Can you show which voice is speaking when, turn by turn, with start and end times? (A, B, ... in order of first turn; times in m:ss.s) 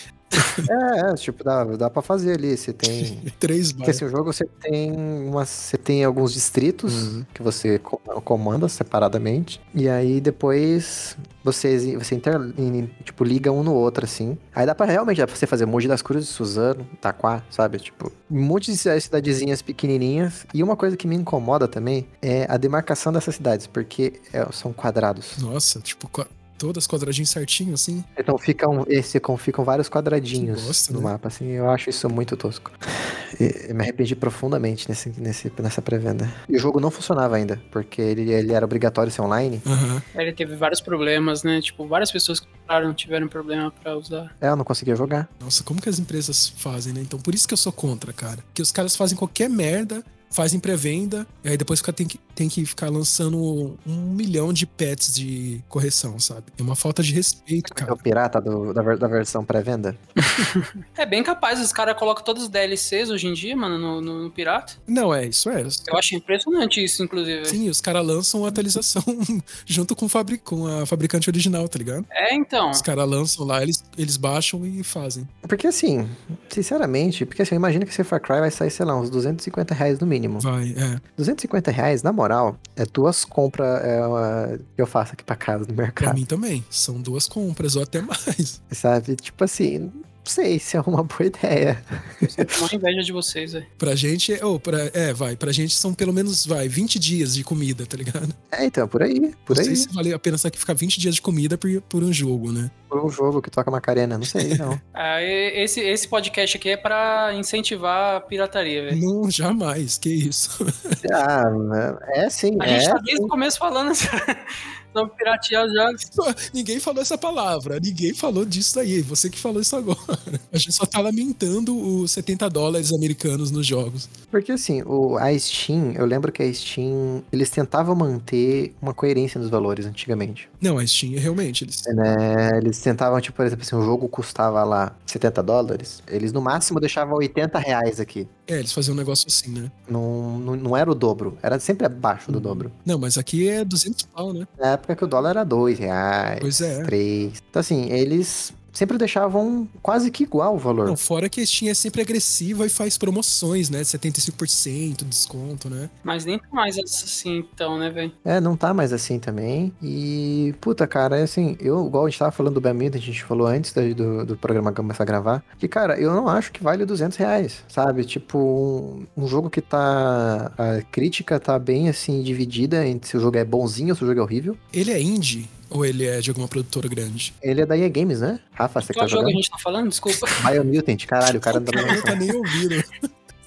0:00.3-0:00.7 A
0:00.6-0:03.3 B
0:02.9-0:04.0 A
0:03.8-0:25.4 B
0:06.9-0:07.2 A
0:25.4-0:28.1 A
0:28.2-0:39.6 B
0:30.4-0:31.1 A
0:39.6-0:40.0 A
0:40.1-0:44.3 C
0:44.4-0:45.3 B
0:45.4-0:58.0 A
0:57.6-1:00.0 B
1:00.2-1:04.8 C
1:04.9-1:06.0 A
1:05.9-1:07.6 C
1:07.4-1:12.1 A
1:12.1-1:12.8 C
1:12.7-1:15.3 A
1:15.4-1:20.5 B
1:20.4-1:21.0 A
1:21.2-1:26.2 B
1:26.0-1:28.6 A
1:28.7-1:32.5 B
1:32.2-1:33.6 C
1:33.8-1:38.4 A
1:38.5-1:39.9 B
1:39.5-1:42.7 A
1:42.9-1:44.8 B
1:44.2-1:44.8 A
1:44.9-1:49.0 C
1:48.9-1:51.0 A
1:51.0-1:53.3 B
1:52.6-1:56.0 C
1:56.1-2:04.1 A
2:04.3-2:10.5 B
2:10.6-2:11.9 A
2:11.8-2:18.3 B
2:18.5-2:19.7 A
2:19.9-2:22.7 B
2:22.3-2:24.5 A
2:24.6-2:31.0 B
2:26.4-2:26.9 A
2:30.8-2:35.9 A
2:36.0-2:38.1 C
2:38.2-2:54.6 B
2:54.7-2:57.3 A
2:57.4-2:59.4 B
2:58.9-3:00.5 C
3:00.3-3:02.2 B
3:01.7-3:02.0 C
3:01.7-3:03.0 A